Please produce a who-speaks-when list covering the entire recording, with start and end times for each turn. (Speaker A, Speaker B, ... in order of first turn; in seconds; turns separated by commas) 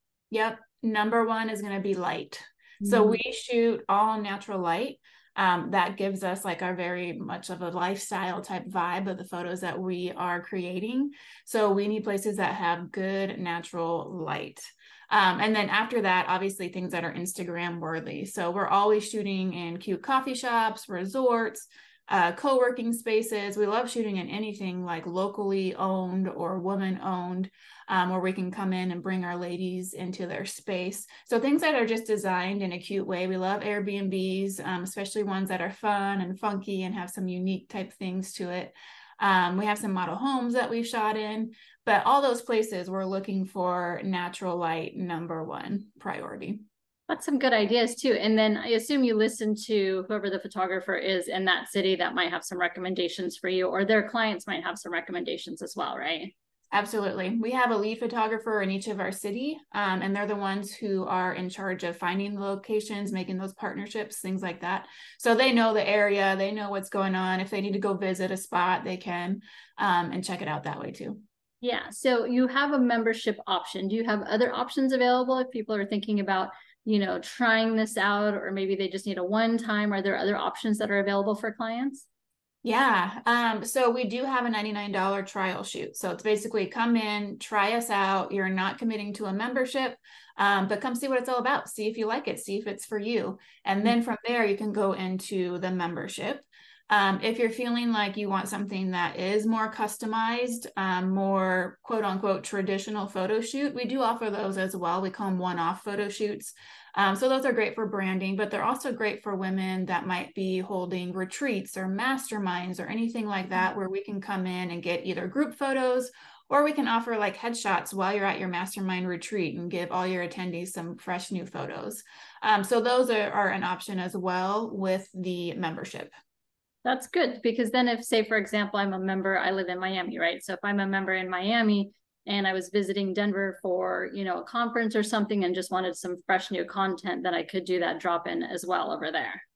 Speaker A: 0.3-46.6, Speaker B: 2.8-3.2, Speaker B: 47.1-56.3, Speaker A: 56.7-71.2, Speaker B: 71.6-82.1, Speaker A: 82.6-126.1, Speaker B: 126.8-139.4